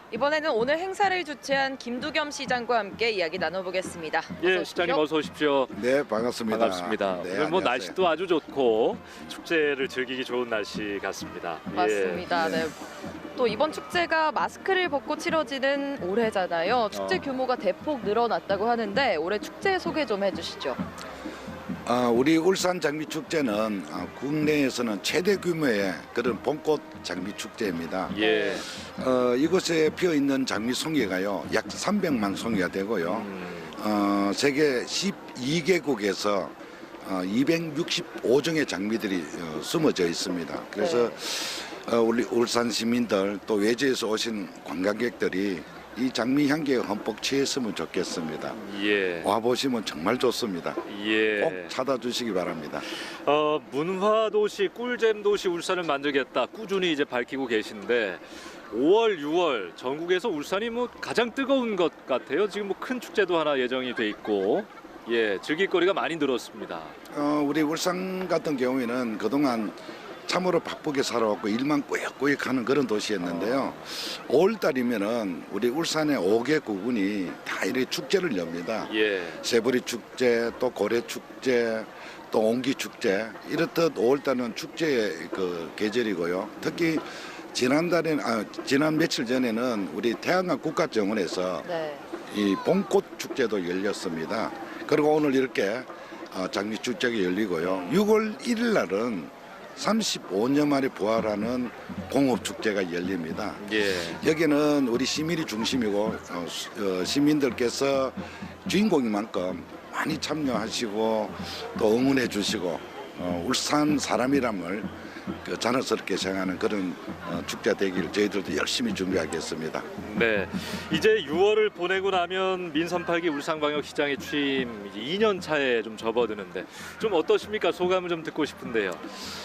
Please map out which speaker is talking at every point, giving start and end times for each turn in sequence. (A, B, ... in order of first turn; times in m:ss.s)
0:00.1-0:05.0 A
0:04.4-0:05.8 B
0:05.7-0:08.0 C
0:06.5-0:12.2 B
0:11.7-0:12.8 A
0:12.3-0:12.7 C
0:13.4-0:20.8 A
0:16.9-0:17.3 B
0:21.8-0:48.6 C
0:28.1-0:28.6 B
0:28.2-0:28.6 A
0:33.0-0:33.8 B
0:40.8-0:41.1 A
0:48.6-0:49.3 B
0:49.2-0:50.8 C
0:50.9-0:51.7 B
0:51.4-0:52.9 C
0:53.2-1:06.9 B
1:07.1-1:31.7 C
1:13.2-1:13.8 B
1:18.9-1:19.4 B
1:31.7-1:32.0 A
1:32.3-1:48.1 C
1:37.6-1:38.0 B
1:43.6-1:44.2 B
1:48.7-1:54.9 C
1:55.4-1:59.9 C
2:00.0-2:09.0 B